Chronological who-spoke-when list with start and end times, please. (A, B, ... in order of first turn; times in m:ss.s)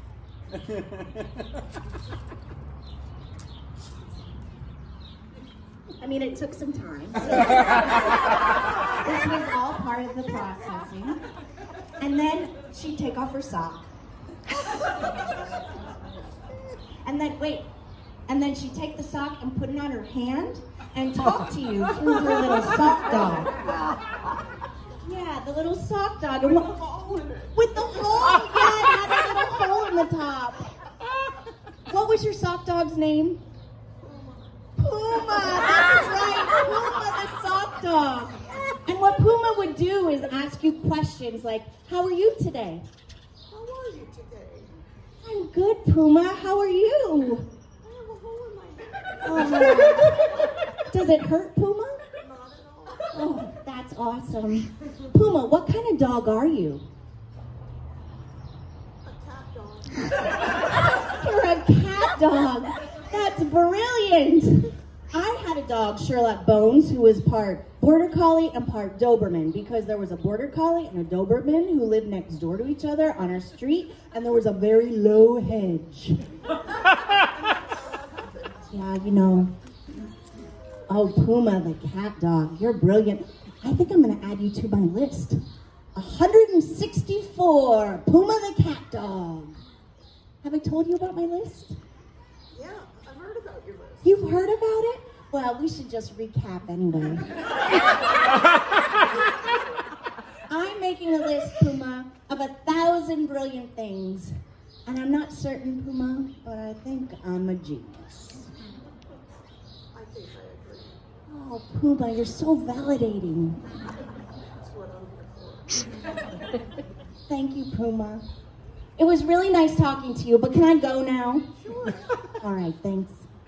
0:06.0-0:08.2 A
0:08.8-0:11.2 A
0:11.9-0:13.9 A
0:17.0-0:17.7 A
0:18.3-0:23.7 A
0:23.3-0:24.0 B
0:25.0-0:26.8 A
0:26.4-0:27.8 B
0:27.5-0:30.7 A
0:31.8-0:33.4 A
0:34.0-0:34.7 B
0:34.8-0:42.8 A
0:43.5-0:44.7 B
0:45.2-0:47.5 A
0:47.8-0:50.5 B
0:49.2-0:52.0 A
0:52.2-0:53.2 B
0:53.1-0:56.8 A
0:59.0-1:00.2 B
1:00.5-1:16.3 A
1:17.2-1:18.7 B
1:18.7-1:19.5 A
1:20.9-1:25.4 A
1:25.9-1:29.6 A
1:30.4-1:31.8 A
1:32.5-1:34.2 B
1:34.0-1:37.7 A
1:40.5-1:44.3 A
1:44.8-1:48.5 A
1:49.9-1:51.0 B
1:51.3-1:53.6 A
1:54.4-1:55.9 B
1:57.3-1:58.2 A
1:59.0-2:01.5 A
2:01.6-2:02.2 B
2:02.3-2:03.3 A